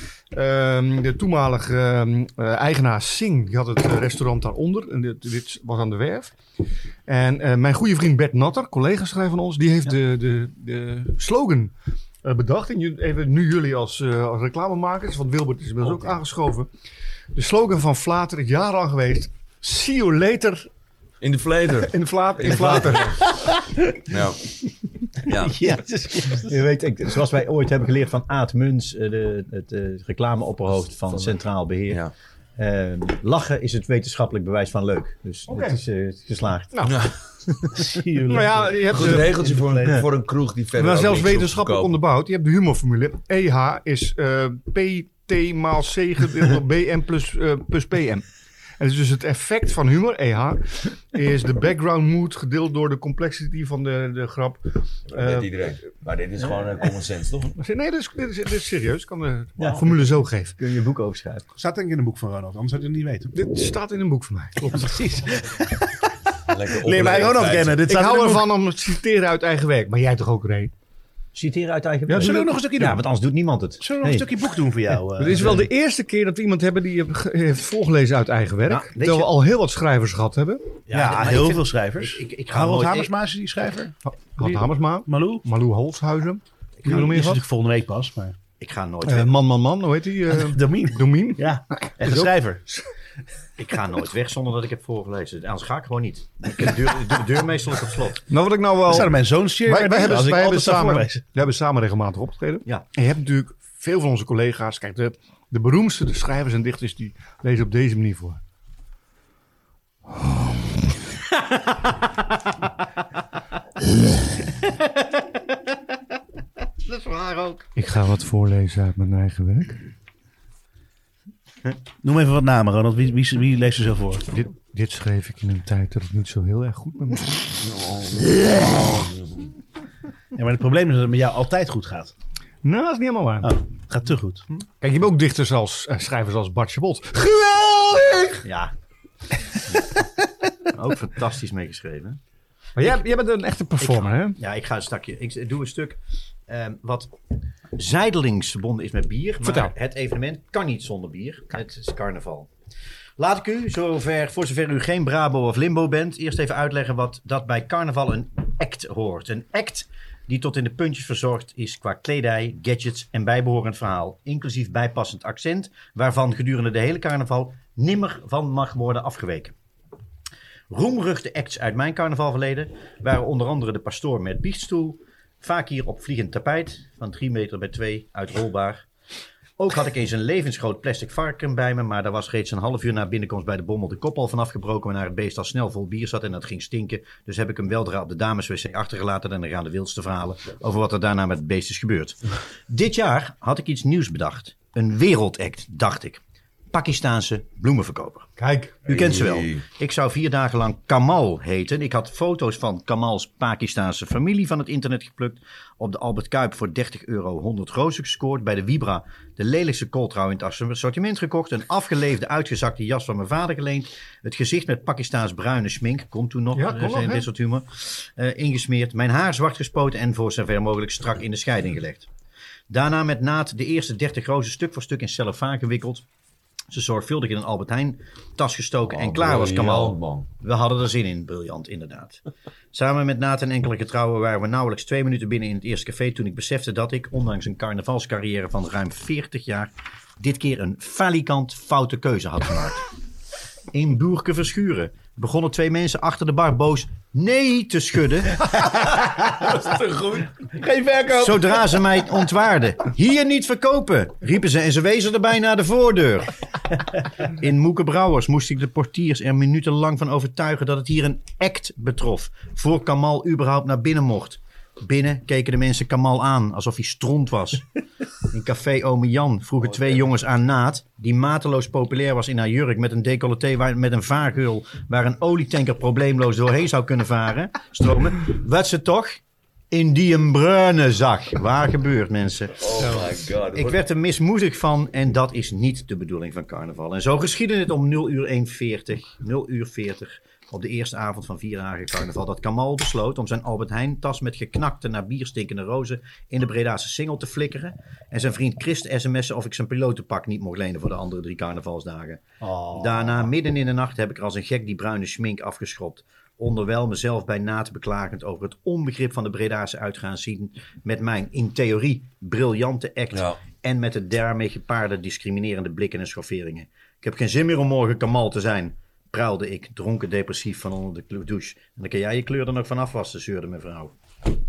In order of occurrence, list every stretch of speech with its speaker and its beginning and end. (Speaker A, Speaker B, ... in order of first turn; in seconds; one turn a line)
Speaker A: 0.3-6.3
Speaker A: 7.1-11.7
Speaker A: 12.2-16.7
Speaker B: 15.8-16.1
Speaker A: 17.3-20.7
Speaker B: 21.2-23.2
Speaker A: 21.7-23.2
Speaker C: 23.4-24.0
Speaker B: 24.1-24.4
Speaker C: 25.3-26.6
Speaker B: 25.3-25.5
Speaker D: 26.3-32.0
Speaker D: 32.6-36.7
Speaker A: 35.5-35.8
Speaker A: 36.7-37.7
Speaker B: 36.8-37.1
Speaker C: 37.7-40.1
Speaker A: 38.3-39.4
Speaker B: 38.9-42.0
Speaker A: 40.8-48.2
Speaker A: 48.8-55.5
Speaker B: 55.1-57.5
Speaker A: 57.5-60.5
Speaker D: 59.6-59.9
Speaker D: 60.6-61.5
Speaker C: 61.5-63.4
Speaker A: 63.3-64.9
Speaker C: 64.7-66.0
Speaker B: 66.5-67.8
Speaker C: 66.8-68.5
Speaker A: 67.8-70.7
Speaker D: 71.3-74.3
Speaker A: 72.1-72.5
Speaker C: 72.2-73.0
Speaker C: 73.8-75.6
Speaker A: 75.2-80.7
Speaker D: 78.7-79.3
Speaker D: 80.9-83.1
Speaker C: 80.9-85.4
Speaker A: 84.1-87.4
Speaker C: 86.8-88.3
Speaker D: 88.6-89.3
Speaker A: 89.1-92.2
Speaker C: 90.3-92.7
Speaker D: 93.6-98.2
Speaker A: 98.3-108.4
Speaker C: 98.9-101.2
Speaker A: 110.1-111.0
Speaker D: 114.9-115.6
Speaker D: 116.8-117.7
Speaker A: 117.8-119.9
Speaker C: 122.0-124.2
Speaker A: 124.3-127.6
Speaker B: 127.6-129.1
Speaker C: 130.3-132.1
Speaker A: 132.6-133.5
Speaker C: 133.4-134.5
Speaker A: 134.8-138.4
Speaker D: 138.4-138.7
Speaker D: 140.7-142.2
Speaker A: 142.8-144.4
Speaker D: 143.8-147.1
Speaker D: 147.8-152.5
Speaker A: 149.4-149.7
Speaker D: 153.2-169.6
Speaker D: 170.7-178.9
Speaker D: 179.6-196.2
Speaker D: 196.7-198.3
Speaker A: 198.4-198.8
Speaker D: 198.9-222.1
Speaker B: 198.9-199.6
Speaker A: 216.5-217.3
Speaker D: 222.7-226.0
Speaker D: 226.7-232.2
Speaker B: 228.9-230.3
Speaker D: 232.7-242.8
Speaker D: 243.7-248.5
Speaker C: 248.4-251.8
Speaker D: 251.2-256.3
Speaker D: 257.2-267.7
Speaker D: 268.3-279.2
Speaker D: 279.7-282.8
Speaker B: 282.6-283.8
Speaker D: 283.5-323.9
Speaker C: 302.4-303.1
Speaker B: 313.1-313.4